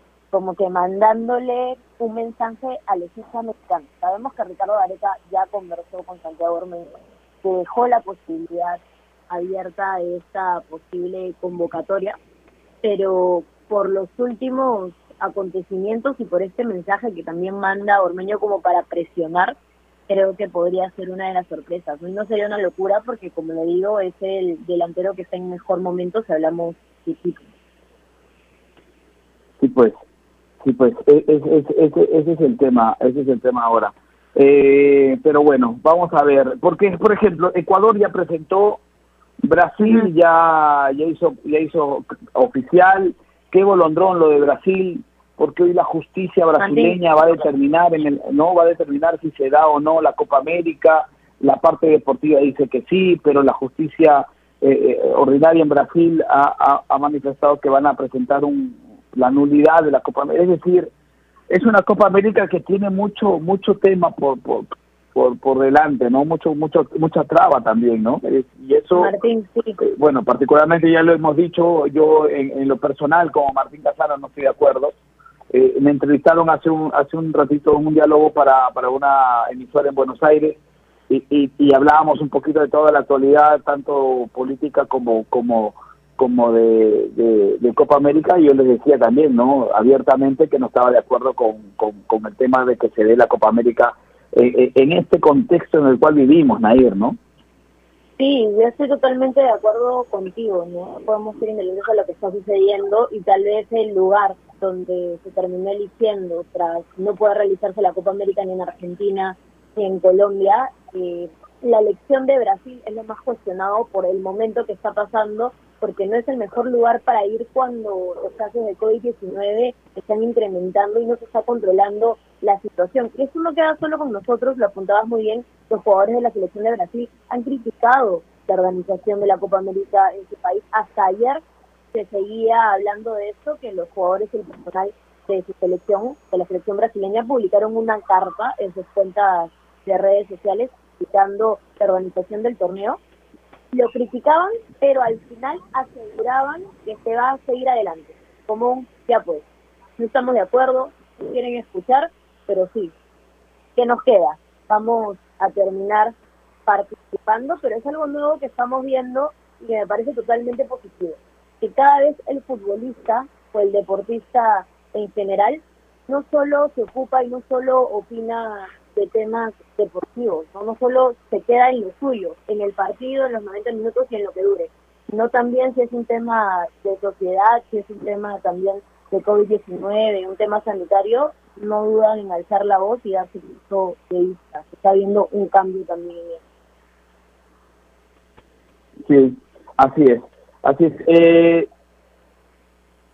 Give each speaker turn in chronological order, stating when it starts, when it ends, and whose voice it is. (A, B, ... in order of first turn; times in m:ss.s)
0:00.3-0:12.2 A
0:12.8-0:19.6 A
0:20.1-0:27.5 A
0:29.6-0:30.0 B
0:30.6-0:38.8 B
0:39.4-1:00.9 B
0:39.8-0:40.1 A
0:46.6-0:47.0 A
1:01.5-1:09.1 B
1:09.0-1:09.8 A
1:09.8-1:15.0 B
1:15.5-1:20.6 B
1:21.1-1:37.2 B
1:38.2-2:11.4 A
2:11.9-2:23.0 A
2:23.7-2:29.4 A
2:30.0-2:32.9 A
2:33.8-2:36.2 A
2:36.7-3:06.4 A
3:09.0-3:11.7 B